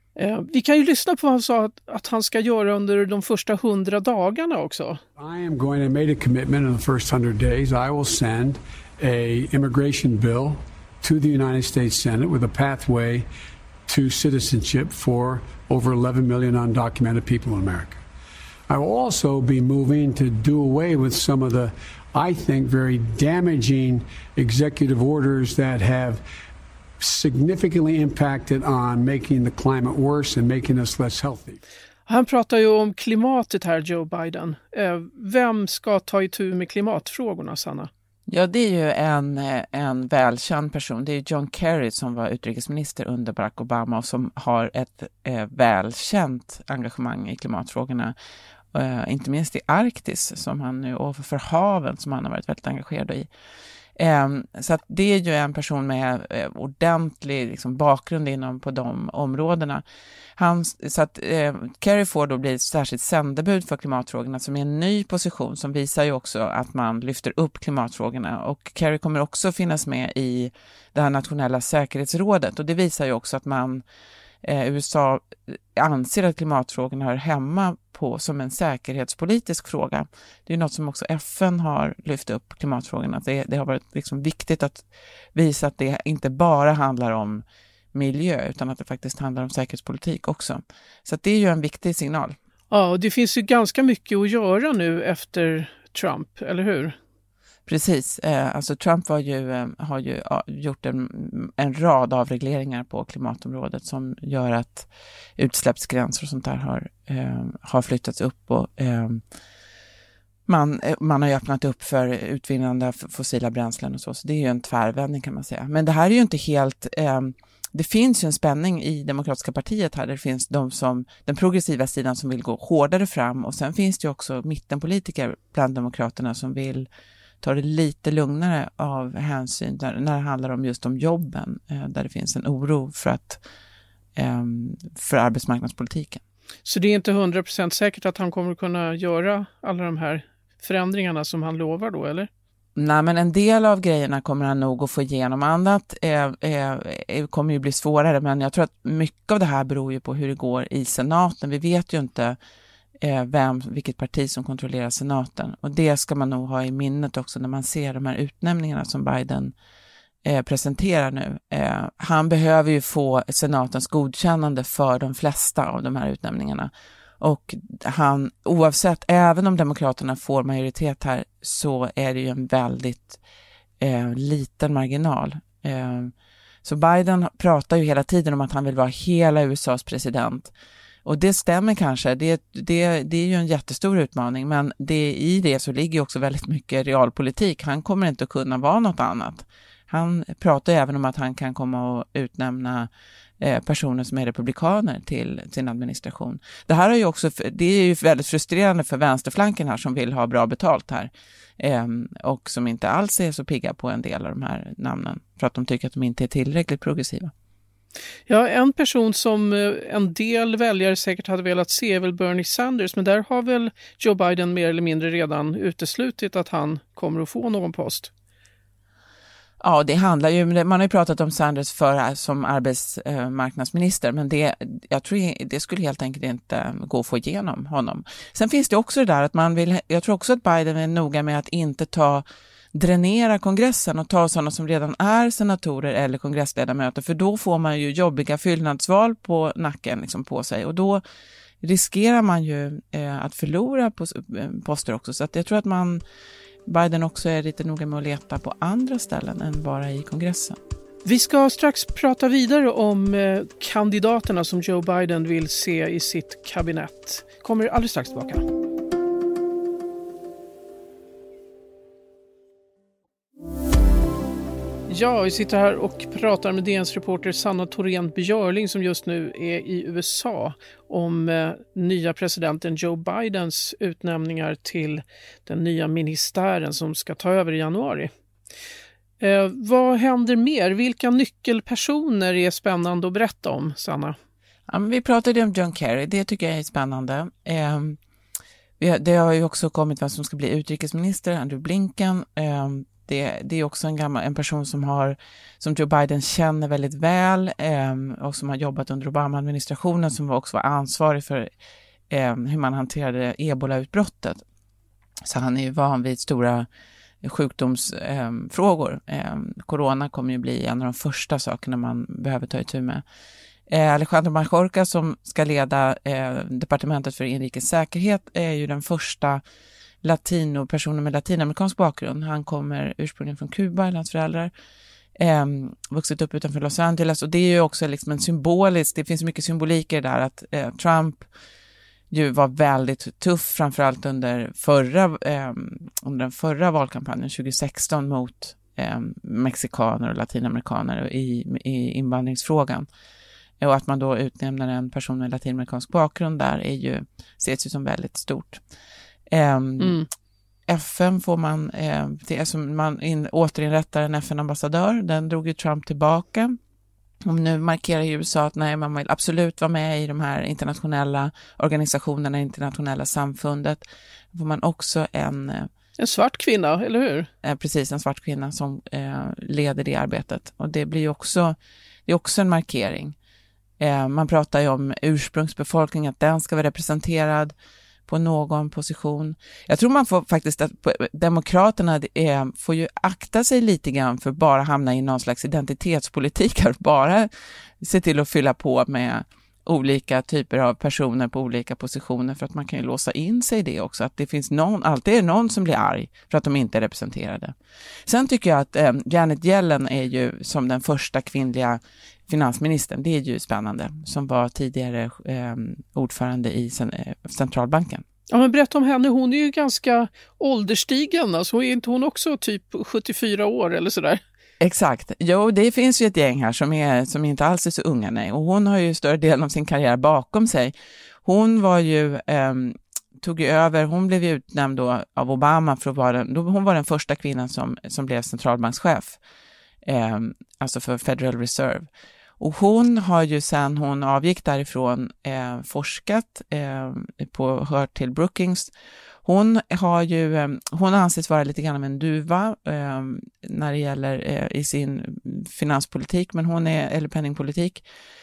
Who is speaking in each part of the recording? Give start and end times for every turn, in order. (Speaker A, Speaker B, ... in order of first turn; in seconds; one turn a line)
Speaker A: 0.2-5.0
Speaker B: 5.2-13.3
Speaker B: 13.9-18.0
Speaker B: 18.7-26.2
Speaker B: 27.0-31.6
Speaker A: 32.1-37.9
Speaker C: 38.3-48.1
Speaker C: 48.7-53.3
Speaker C: 54.0-59.8
Speaker C: 60.4-73.8
Speaker C: 74.4-87.4
Speaker C: 87.9-92.3
Speaker A: 92.7-96.9
Speaker C: 97.7-109.2
Speaker C: 110.5-126.9
Speaker C: 127.4-133.4
Speaker C: 134.2-136.2
Speaker A: 136.7-142.3
Speaker C: 142.8-152.4
Speaker C: 153.0-159.5
Speaker C: 160.2-166.7
Speaker C: 167.2-173.2
Speaker C: 173.8-176.1
Speaker C: 176.6-180.5
Speaker C: 181.1-192.9
Speaker C: 193.4-207.3
Speaker A: 208.3-218.1
Speaker C: 219.6-232.2
Speaker C: 232.7-241.0
Speaker C: 241.6-246.0
Speaker C: 246.7-250.6
Speaker A: 251.1-258.4
Speaker A: 264.9-278.1
Speaker A: 279.2-284.1
Speaker C: 284.7-288.0
Speaker C: 288.8-301.5
Speaker C: 302.1-304.4
Speaker C: 305.3-306.6
Speaker C: 307.2-313.0
Speaker C: 313.7-319.4
Speaker C: 320.0-324.5
Speaker C: 325.2-331.3
Speaker C: 332.1-342.9
Speaker C: 343.6-348.6
Speaker C: 349.3-350.0
Speaker A: 349.8-350.1
Speaker C: 350.7-356.5
Speaker C: 357.2-363.8
Speaker C: 364.3-365.7
Speaker A: 366.0-367.3
Speaker C: 367.4-371.6
Speaker C: 372.1-373.2
Speaker C: 373.8-377.6
Speaker C: 378.1-387.3
Speaker C: 387.8-397.5
Speaker C: 398.1-408.0
Speaker A: 408.3-414.2
Speaker C: 414.6-420.7
Speaker C: 421.2-429.2
Speaker C: 429.9-431.9
Speaker C: 432.4-438.7
Speaker C: 439.2-447.8